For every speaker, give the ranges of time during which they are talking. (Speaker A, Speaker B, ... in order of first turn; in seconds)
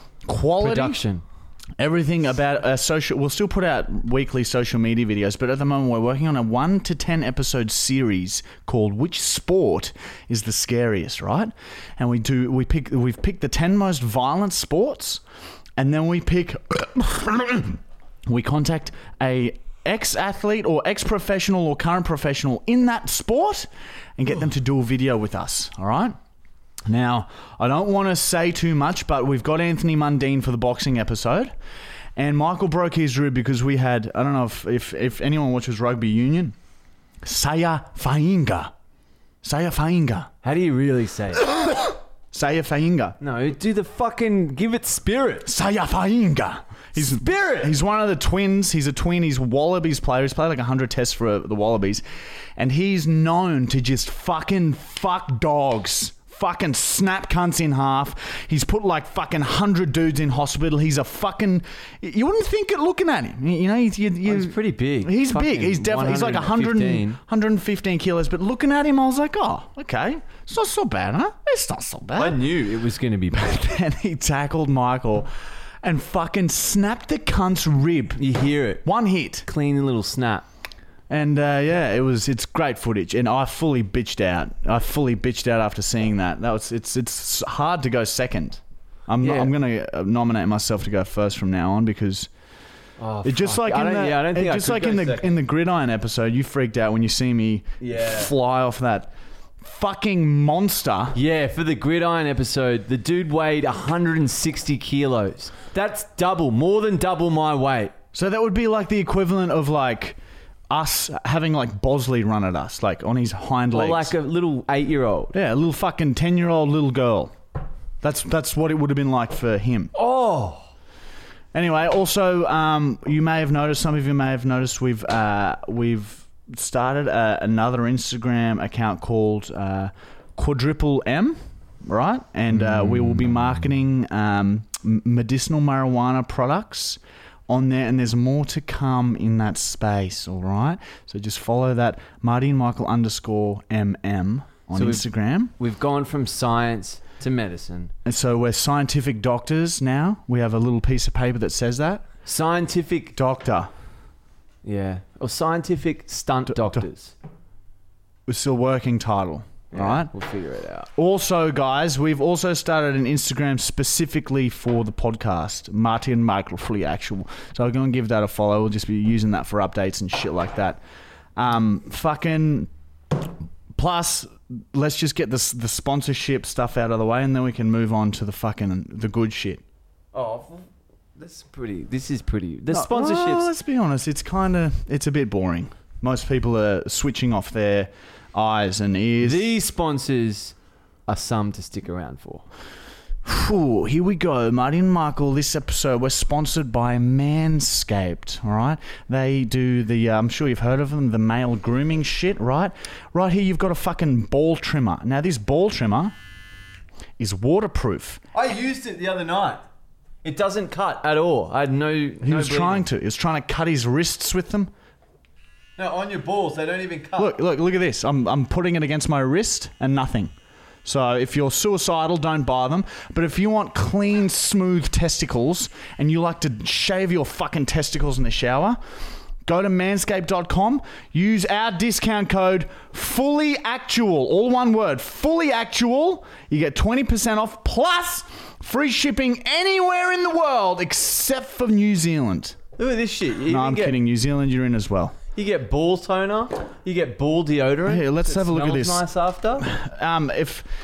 Speaker A: 0.2-1.0, 1.8-15.2, 15.8-26.2, 26.9-31.5, 32.2-36.5, 37.2-38.7, 39.4-40.3, 41.6-43.2, 45.5-52.0, 52.6-72.4, 73.3-75.3, 75.8-78.2, 78.8-79.5, 81.1-92.3, 93.2-101.2, 108.1-110.2, 110.7-114.1, 115.3-117.3, 118.0-119.9, 121.5-145.5, 148.1-152.1, 153.2-153.7, 156.6-156.8, 158.3-160.1, 161.0-170.8, 171.4-172.7, 173.7-179.6, 182.7-189.5, 193.2-206.2, 207.2-208.2, 212.2-214.7, 217.2-220.3, 220.8-228.8, 229.4-242.6, 243.5-245.2, 247.8-250.7
Speaker B: 0.6-1.2, 40.4-41.6, 43.2-45.5, 47.0-47.8, 64.2-67.2, 72.2-73.6, 78.2-78.8, 79.5-80.5, 89.2-89.5, 93.0-95.4, 97.8-98.3, 101.2-107.9, 113.7-115.3, 119.9-120.7, 144.8-147.9, 152.2-153.2, 154.6-157.1, 159.7-160.9, 180.1-183.5, 189.2-190.6, 191.1-192.4, 208.3-209.7, 210.2-212.9, 215.8-217.4, 242.8-244.0, 245.4-249.7